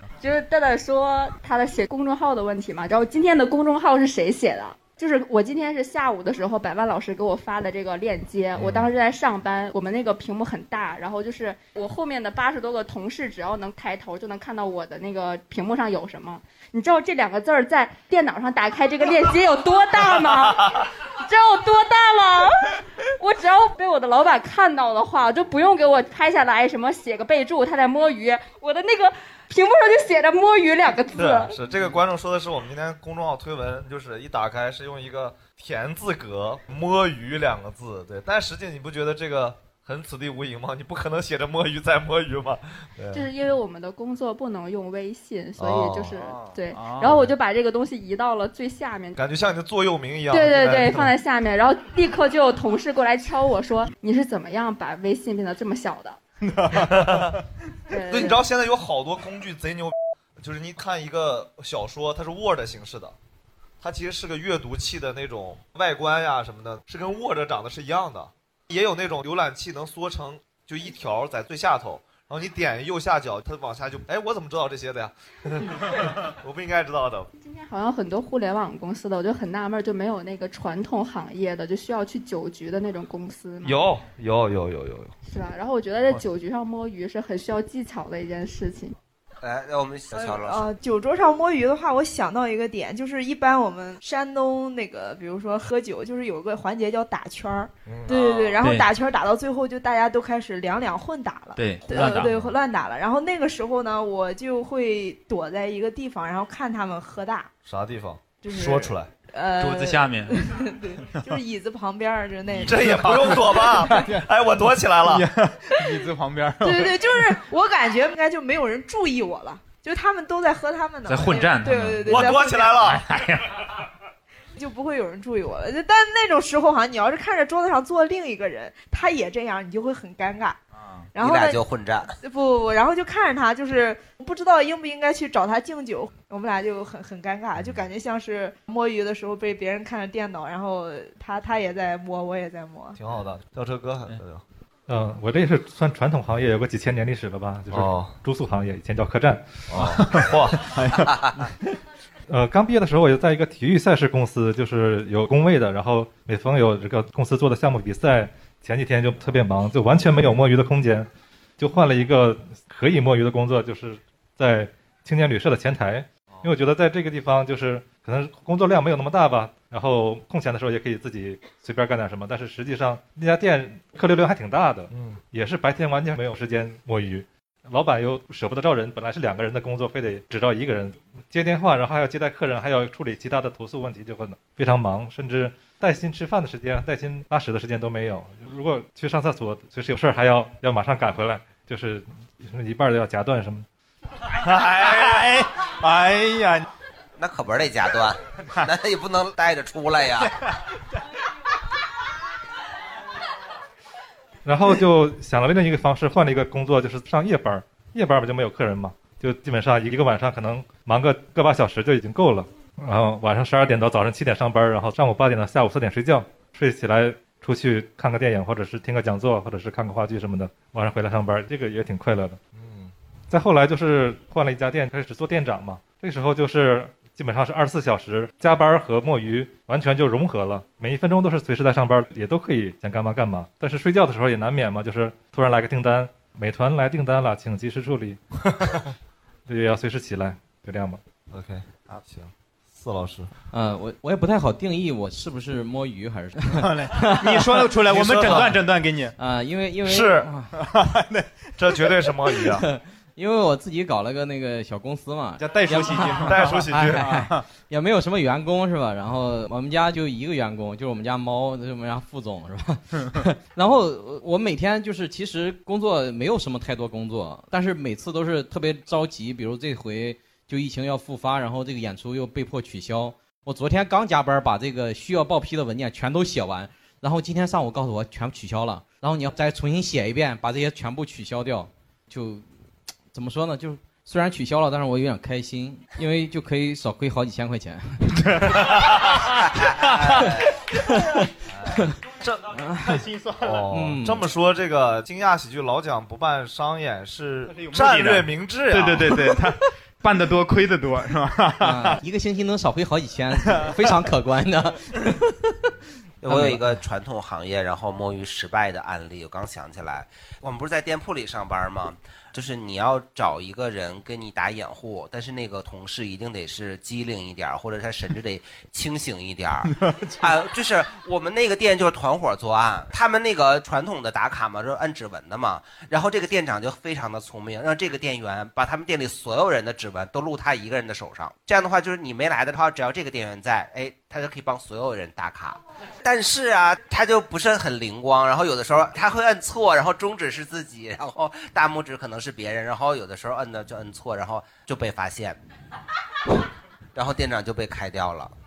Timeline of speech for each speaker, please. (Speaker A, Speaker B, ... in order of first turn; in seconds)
Speaker A: 0.2-31.5, 43.1-49.2, 50.3-56.2, 57.9-58.4, 77.4-83.8, 85.3-89.0
Speaker B: 8.6-8.9, 31.1-43.3, 45.6-46.4, 47.0-47.3, 49.2-51.1, 56.7-57.4, 58.1-63.1, 63.8-77.3, 83.6-85.2, 97.9-98.2, 102.0-102.5, 107.6-109.1, 112.6-115.3, 122.0-123.1, 143.0-144.4, 147.7-148.1, 149.7-150.8, 174.9-175.2, 222.5-222.9, 241.3-243.3, 247.9-248.6, 249.8-250.3, 251.6-252.7, 256.2-257.1, 291.5-292.6, 293.4-299.2
Speaker C: 46.7-47.2, 56.4-57.4, 98.6-98.9, 101.6-102.4, 109.6-111.3, 112.5-114.3, 115.0-117.4, 121.1-123.7, 130.8-131.1, 149.8-151.4, 194.3-196.7, 246.5-249.1, 250.5-251.8, 255.4-257.4, 288.2-289.1, 292.9-293.3, 297.5-302.0, 303.4-303.7, 319.8-320.2
Speaker D: 89.4-90.7, 98.1-98.6, 131.2-132.2, 197.2-200.3, 289.4-290.5, 306.2-345.4, 346.9-348.3
Speaker E: 90.2-107.5, 108.5-108.8, 109.3-113.7, 116.7-122.7, 124.6-130.6, 131.2-142.9
Speaker F: 144.9-149.6, 152.3-161.1, 161.6-193.7, 204.4-222.4, 223.3-238.2, 239.5-241.0
Speaker G: 243.5-248.5, 249.2-250.5, 252.5-282.5, 283.1-288.0, 290.9-291.9, 292.6-293.0, 293.7-294.3, 301.6-305.5, 306.3-306.8